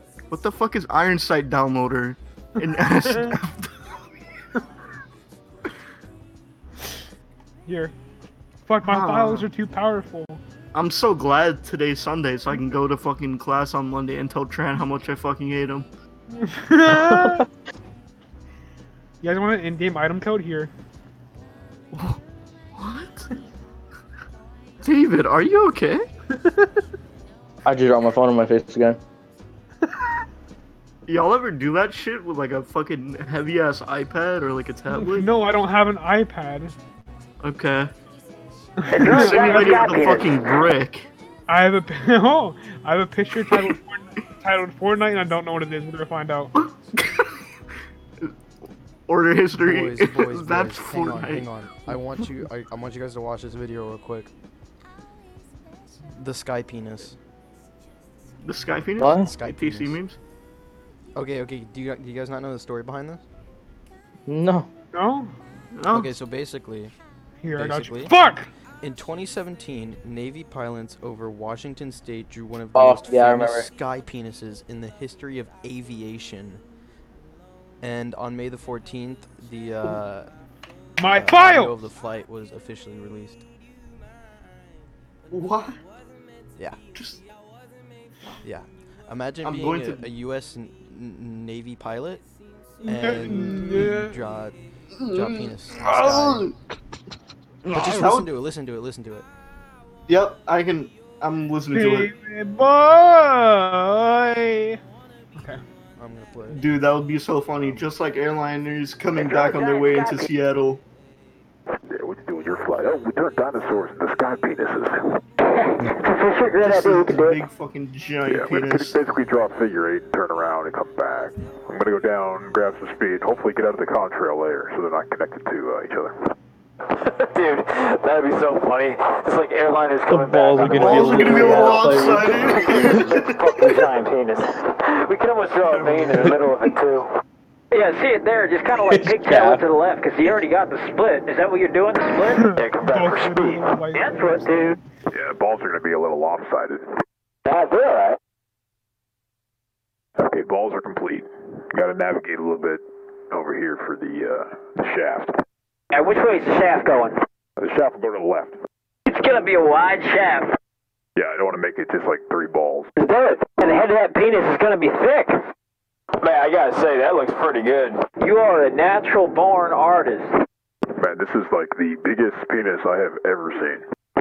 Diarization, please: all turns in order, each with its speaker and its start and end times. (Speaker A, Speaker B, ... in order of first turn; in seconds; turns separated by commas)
Speaker A: 0.3-3.7, Speaker B: 3.0-3.4, Speaker B: 7.7-7.9, Speaker B: 8.7-10.4, Speaker A: 8.8-9.5, Speaker A: 10.7-15.9, Speaker B: 16.3-17.5, Speaker C: 16.9-17.4, Speaker B: 19.2-20.7, Speaker A: 21.9-22.2, Speaker A: 22.8-23.3, Speaker A: 24.8-26.1, Speaker B: 26.4-26.7, Speaker C: 27.6-29.0, Speaker A: 31.1-35.3, Speaker B: 34.9-36.8, Speaker A: 37.4-37.9, Speaker B: 38.8-39.9, Speaker D: 38.9-40.7, Speaker A: 39.0-41.1, Speaker B: 41.5-46.5, Speaker A: 46.6-47.4, Speaker A: 49.1-51.5, Speaker E: 49.6-54.3, Speaker E: 56.2-57.2, Speaker A: 58.4-60.2, Speaker C: 59.0-59.3, Speaker E: 59.0-60.0, Speaker E: 61.1-63.2, Speaker C: 64.3-64.7, Speaker B: 64.9-65.3, Speaker A: 65.7-66.1, Speaker E: 65.9-66.9, Speaker B: 67.4-68.5, Speaker E: 67.6-68.1, Speaker E: 68.8-76.6, Speaker C: 72.7-73.7, Speaker E: 77.8-80.3, Speaker B: 81.0-81.8, Speaker E: 81.1-83.4, Speaker A: 85.3-85.8, Speaker A: 87.0-87.2, Speaker E: 88.4-92.2, Speaker A: 89.4-90.1, Speaker E: 92.8-96.5, Speaker B: 92.8-94.2, Speaker A: 93.2-93.8, Speaker A: 95.0-96.6, Speaker A: 97.6-98.3, Speaker E: 97.7-99.3, Speaker A: 100.1-102.1, Speaker B: 101.7-104.8, Speaker B: 105.3-105.6, Speaker E: 106.0-106.6, Speaker A: 106.5-110.8, Speaker D: 109.2-110.2, Speaker F: 109.3-109.8, Speaker G: 111.9-115.0, Speaker D: 115.5-117.4, Speaker A: 116.6-119.0, Speaker G: 118.3-126.2, Speaker F: 127.0-137.1, Speaker C: 130.1-133.0, Speaker A: 130.6-133.9, Speaker A: 135.7-136.3, Speaker D: 137.7-143.2, Speaker C: 138.9-139.6, Speaker B: 142.3-144.8, Speaker F: 142.4-143.6, Speaker D: 143.9-144.8, Speaker G: 145.1-146.9, Speaker F: 147.5-148.2, Speaker G: 150.2-155.4, Speaker D: 155.9-157.2, Speaker G: 157.6-158.6, Speaker D: 159.1-160.6, Speaker G: 161.2-162.9, Speaker F: 163.0-163.6, Speaker D: 163.4-165.4, Speaker F: 166.2-168.1, Speaker D: 168.2-170.3, Speaker G: 170.9-173.8